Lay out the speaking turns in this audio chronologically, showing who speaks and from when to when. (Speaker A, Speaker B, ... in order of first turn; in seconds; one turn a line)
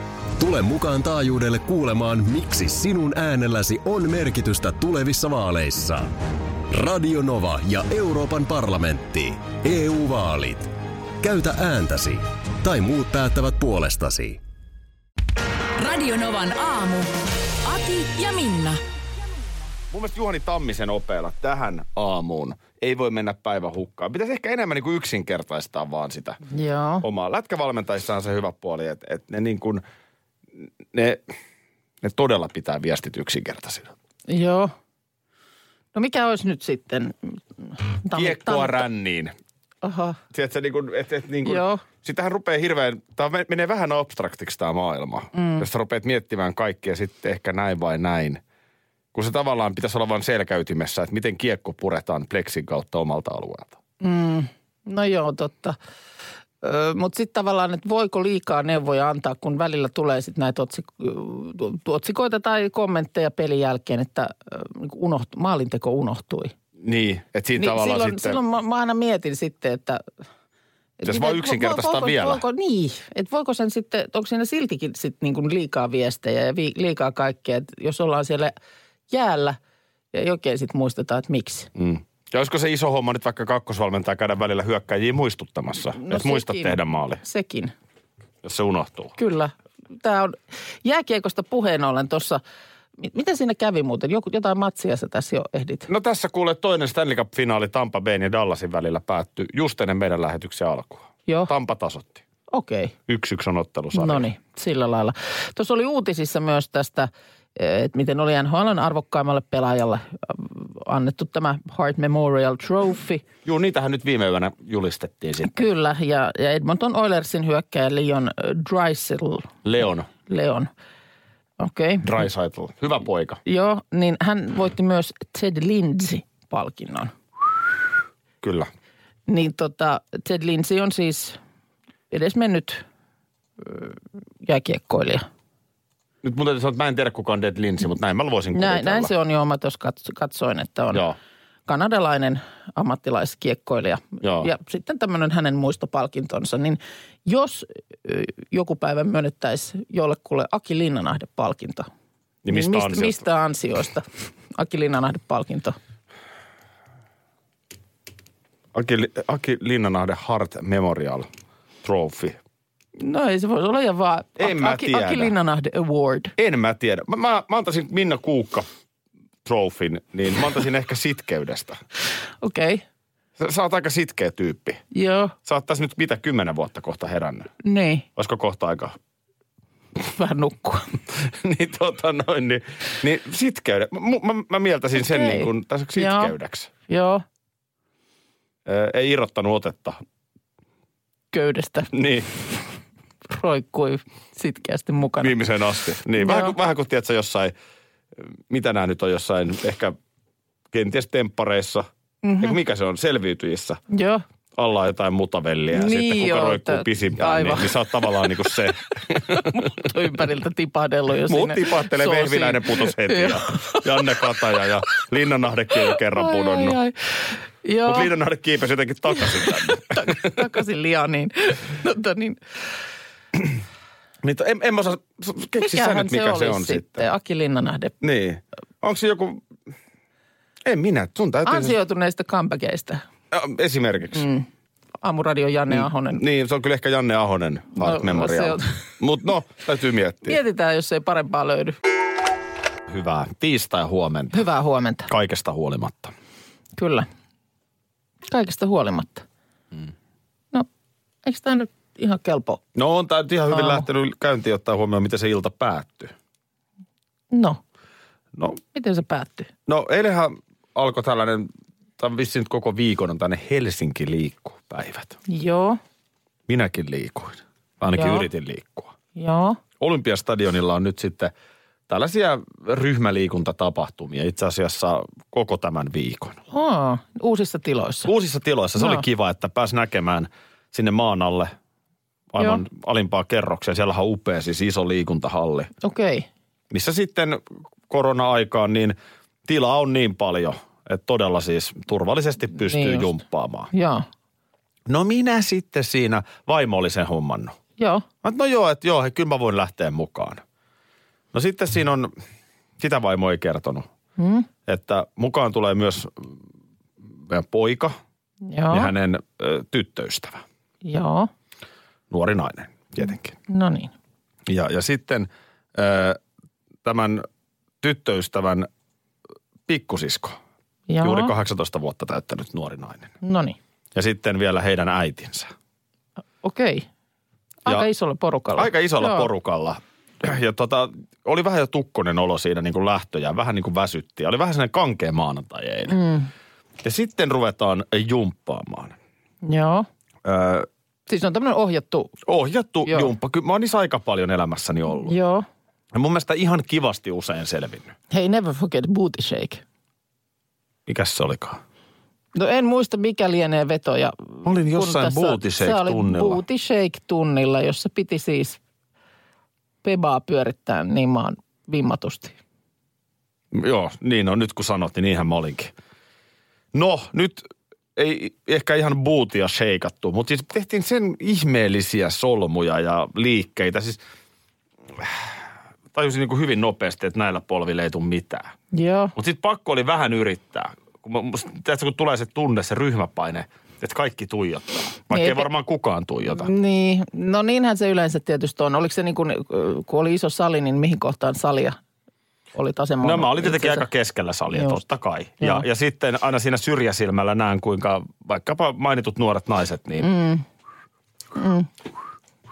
Speaker A: 0.4-6.1
Speaker A: 6.7-14.4
Speaker B: 15.8-17.1
Speaker B: 17.6-18.8
Speaker C: 19.9-26.4
Speaker D: 26.5-27.0
Speaker C: 27.0-29.8
Speaker C: 30.9-31.2
Speaker C: 32.0-33.9
Speaker D: 34.3-34.7
Speaker D: 35.9-38.8
Speaker C: 38.1-39.3
Speaker D: 39.8-40.2
Speaker C: 40.3-48.4
Speaker D: 41.4-41.8
Speaker D: 45.3-45.6
Speaker C: 49.1-53.7
Speaker D: 54.0-55.8
Speaker D: 56.6-66.5
Speaker C: 66.8-68.4
Speaker D: 67.5-70.0
Speaker D: 71.0-78.5
Speaker C: 71.0-72.4
Speaker D: 79.1-79.6
Speaker D: 80.1-81.7
Speaker C: 81.7-87.2
Speaker D: 85.9-87.7
Speaker C: 88.4-89.1
Speaker D: 89.2-92.4
Speaker D: 93.0-95.9
Speaker C: 95.9-102.2
Speaker D: 102.5-102.9
Speaker C: 103.1-104.3
Speaker D: 103.9-113.2
Speaker C: 113.4-115.7
Speaker D: 115.4-119.6
Speaker C: 119.6-120.1
Speaker D: 120.2-120.7
Speaker D: 121.6-122.2
Speaker C: 122.0-123.4
Speaker D: 123.5-127.1
Speaker C: 128.4-128.7
Speaker D: 129.3-131.4
Speaker D: 132.1-132.8
Speaker D: 133.6-135.2
Speaker C: 136.2-139.1
Speaker D: 138.5-141.0
Speaker D: 141.7-151.9
Speaker C: 144.2-144.5
Speaker C: 152.4-153.2
Speaker D: 152.5-155.8
Speaker C: 158.7-161.3
Speaker C: 161.8-162.4
Speaker D: 163.0-166.3
Speaker C: 164.4-165.3
Speaker C: 166.4-168.7
Speaker C: 169.4-171.8
Speaker D: 172.4-172.8
Speaker C: 173.4-174.8
Speaker D: 174.9-175.3
Speaker C: 175.4-177.5
Speaker D: 177.6-178.1
Speaker C: 178.2-178.9
Speaker D: 180.0-181.0
Speaker C: 181.2-186.7
Speaker D: 185.0-186.3
Speaker D: 186.9-187.2
Speaker C: 188.7-190.0
Speaker D: 191.3-191.9
Speaker C: 191.9-192.3
Speaker D: 193.3-195.3
Speaker C: 195.2-197.5
Speaker D: 196.2-196.5
Speaker C: 198.2-200.0
Speaker C: 200.7-201.9
Speaker D: 202.2-202.6
Speaker C: 202.4-203.8
Speaker D: 203.9-204.2
Speaker C: 204.6-209.6
Speaker D: 205.7-208.1
Speaker D: 209.1-213.8
Speaker C: 211.3-216.8
Speaker D: 215.9-216.9
Speaker D: 217.6-218.1
Speaker C: 217.8-220.4
Speaker D: 219.1-222.4
Speaker C: 224.2-227.1
Speaker D: 225.6-227.9
Speaker C: 228.0-229.4
Speaker C: 230.6-231.7
Speaker D: 231.4-233.0
Speaker C: 233.3-234.3
Speaker D: 234.1-234.5
Speaker D: 235.0-236.2
Speaker C: 235.7-240.4
Speaker D: 237.8-238.8
Speaker D: 240.2-241.8
Speaker C: 242.9-244.4
Speaker D: 244.3-245.1
Speaker C: 245.1-246.1
Speaker D: 246.8-247.1
Speaker D: 248.3-249.2
Speaker D: 251.2-252.6
Speaker C: 252.7-256.1
Speaker D: 253.5-253.9
Speaker D: 257.3-257.6
Speaker C: 258.3-258.6
Speaker D: 258.7-259.5
Speaker C: 259.7-265.2
Speaker D: 265.3-265.8
Speaker C: 266.5-268.9
Speaker D: 268.0-268.2
Speaker D: 269.1-269.6
Speaker C: 269.8-271.3
Speaker C: 271.9-276.4
Speaker D: 276.5-278.1
Speaker C: 278.0-281.5
Speaker D: 278.8-279.0
Speaker C: 282.3-285.7
Speaker D: 282.4-282.6
Speaker D: 285.8-286.3
Speaker C: 286.7-293.7
Speaker D: 292.6-293.1
Speaker D: 293.7-294.1
Speaker C: 294.9-297.6
Speaker D: 297.8-298.0
Speaker C: 298.2-300.4
Speaker C: 301.3-302.1
Speaker C: 302.8-303.9
Speaker D: 304.2-304.5
Speaker C: 304.6-306.3
Speaker C: 307.2-307.9
Speaker D: 308.5-308.9
Speaker C: 308.7-310.4
Speaker D: 310.8-311.3
Speaker C: 312.1-313.4
Speaker D: 313.5-313.9
Speaker C: 314.5-316.2
Speaker C: 316.8-317.2
Speaker C: 317.8-318.7
Speaker C: 319.7-320.4
Speaker D: 320.9-321.3
Speaker C: 321.0-323.1
Speaker D: 323.2-323.6
Speaker C: 323.9-325.5
Speaker D: 326.4-326.9
Speaker D: 327.6-329.3
Speaker C: 328.6-336.0
Speaker D: 335.9-336.3
Speaker C: 336.8-338.9
Speaker D: 339.4-339.9
Speaker C: 340.2-340.7
Speaker D: 341.1-342.1
Speaker C: 342.2-345.1
Speaker D: 345.0-345.4
Speaker C: 345.9-347.9
Speaker D: 348.1-349.6
Speaker C: 350.9-351.6
Speaker D: 352.3-358.6
Speaker C: 354.4-356.4
Speaker D: 359.8-362.4
Speaker C: 363.5-365.7
Speaker C: 366.7-374.0
Speaker C: 374.9-375.3
Speaker C: 375.9-378.5
Speaker D: 378.7-379.1
Speaker C: 379.1-386.5
Speaker D: 385.1-385.5
Speaker D: 386.4-391.8
Speaker D: 392.5-393.9
Speaker C: 393.0-400.1
Speaker D: 394.5-394.8
Speaker D: 400.0-400.4
Speaker D: 401.3-401.7